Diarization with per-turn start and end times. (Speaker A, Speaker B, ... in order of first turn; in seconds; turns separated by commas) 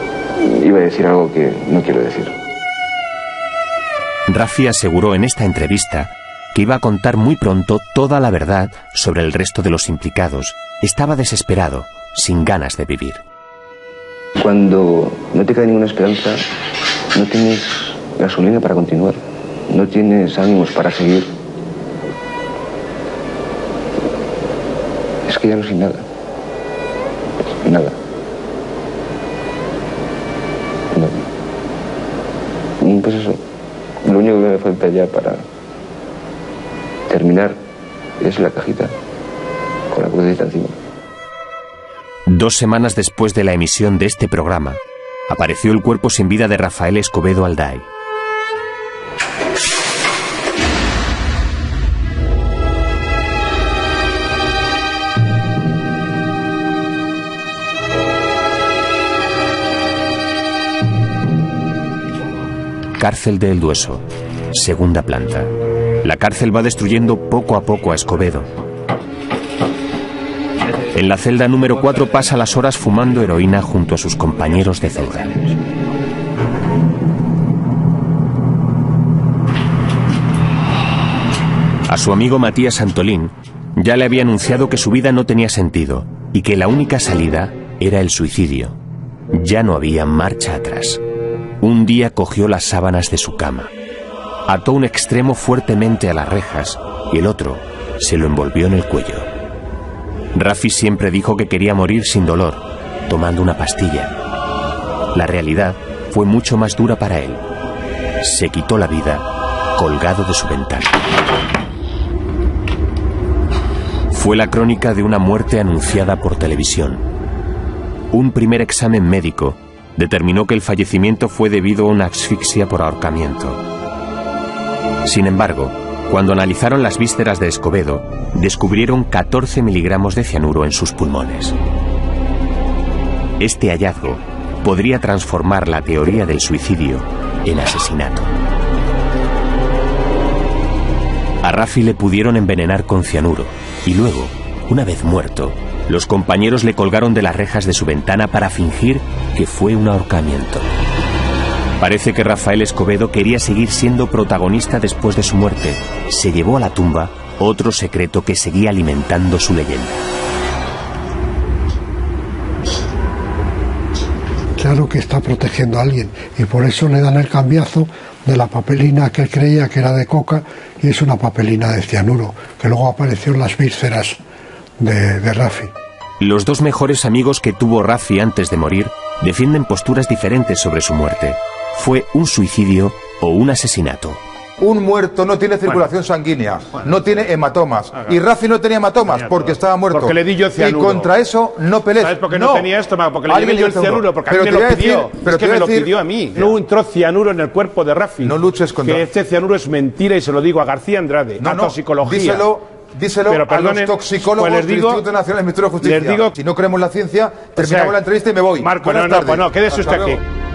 Speaker A: 0.4-2.4, Speaker B: 4.3-13.2, Speaker A: 14.4-16.4, Speaker A: 17.1-21.3, Speaker A: 25.2-26.1, Speaker A: 27.6-27.9, Speaker A: 30.9-31.2, Speaker A: 32.8-33.4, Speaker A: 34.0-35.5, Speaker A: 37.1-37.6, Speaker A: 38.2-38.9, Speaker A: 39.9-40.8, Speaker B: 42.3-47.9, Speaker B: 63.0-65.5, Speaker B: 66.0-68.5, Speaker B: 70.9-75.5, Speaker B: 81.9-88.8, Speaker B: 89.3-91.0, Speaker B: 91.6-93.7, Speaker B: 94.5-99.3, Speaker B: 100.3-104.1, Speaker B: 105.1-107.4, Speaker B: 108.2-111.0, Speaker B: 114.1-117.0, Speaker B: 118.1-123.6, Speaker B: 125.0-131.5, Speaker B: 133.4-138.3, Speaker B: 141.4-150.7, Speaker B: 151.8-160.0, Speaker C: 164.6-174.2, Speaker C: 174.8-175.7, Speaker B: 176.2-184.2, Speaker D: 184.6-192.7, Speaker E: 189.1-191.1, Speaker E: 192.0-202.5, Speaker D: 193.2-196.5, Speaker D: 198.2-199.1, Speaker D: 201.4-210.2, Speaker E: 203.3-205.0, Speaker E: 205.8-206.3, Speaker E: 207.6-208.0, Speaker E: 208.6-210.2